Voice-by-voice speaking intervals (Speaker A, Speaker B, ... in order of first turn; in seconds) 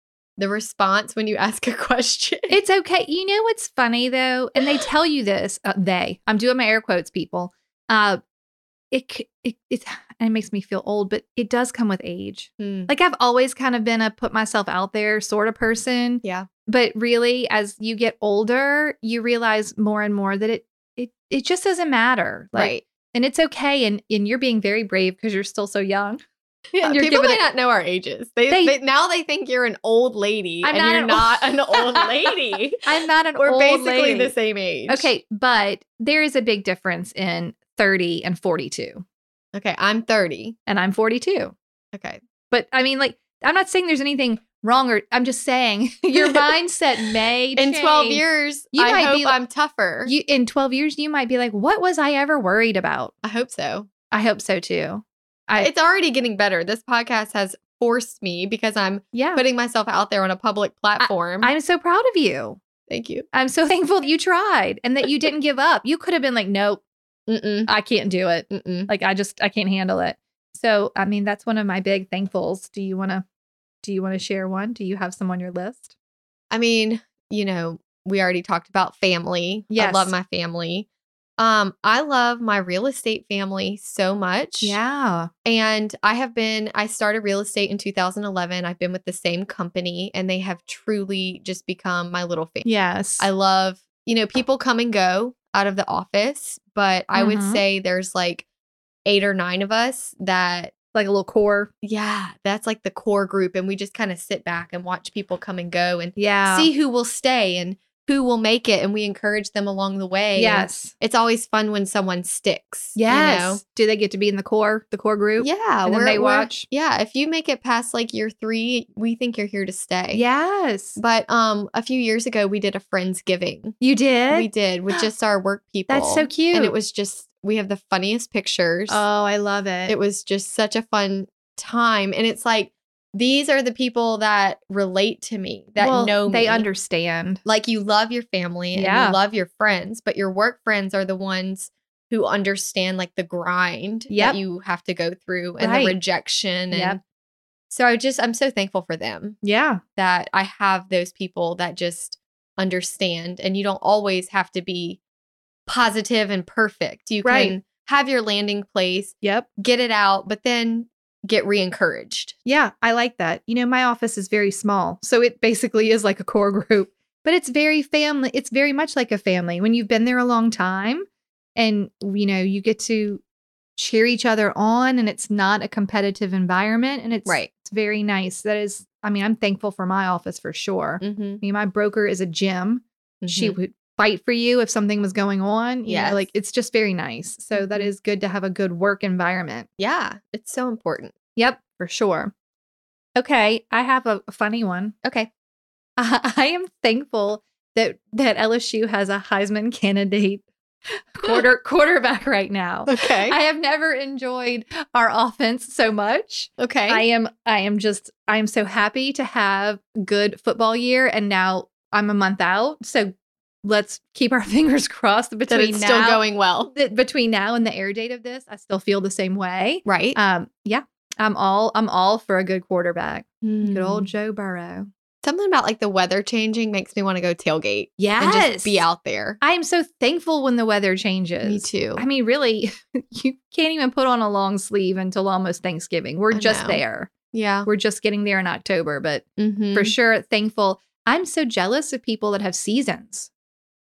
Speaker A: 0.4-2.6, 12.6-12.9, 22.6-22.9, 26.8-32.9, 33.4-35.1, 39.5-40.6, 41.9-42.2, 46.1-46.5, 47.5-50.1, 53.2-53.9, 55.6-61.5, 62.9-63.3, 67.3-67.7, 68.5-68.9, 76.5-80.9, 81.4-84.8, 85.5-92.7, 93.2-98.5, 99.1-100.7, 101.8-113.6, 115.4-120.2, 121.0-123.8, 124.3-129.0, 129.9-136.7, 137.4-147.0, 147.7-149.4, 150.0-155.0, 155.7-162.4, 181.0-181.4, 183.2-183.6, 185.9-186.3, 187.5-187.9, 189.8-191.1, 195.0-195.3, 202.9-203.4, 206.6-207.1, 215.5-216.7, 219.8-220.2, 223.4-224.1, 225.2-229.4, 231.4-232.1, 236.3-236.8, 237.3-237.7, 239.4-239.9
Speaker B: 2.5-8.2, 8.9-26.2, 26.7-27.4, 28.5-28.7, 30.6-34.3, 34.9-39.0, 40.7-41.5, 42.5-49.4, 50.0-53.1, 54.1-55.7, 59.1-59.4, 61.0-62.6, 63.3-66.8, 67.7-73.2, 73.8-75.9, 79.7-80.1, 84.6-85.3, 92.6-93.3, 97.2-97.6, 100.9-101.7, 106.2-106.7, 110.4-110.9, 113.0-116.7, 120.1-121.0, 123.8-125.0, 125.9-126.7, 128.9-129.9, 135.8-137.4, 138.8-139.2, 144.1-144.4, 145.6-146.0, 146.7-147.0, 149.4-149.8, 157.2-157.6, 159.2-159.5, 162.5-173.2, 173.8-189.7, 191.4-192.3, 193.2-195.0, 196.0-224.9, 228.0-228.8, 229.4-237.1, 237.7-243.3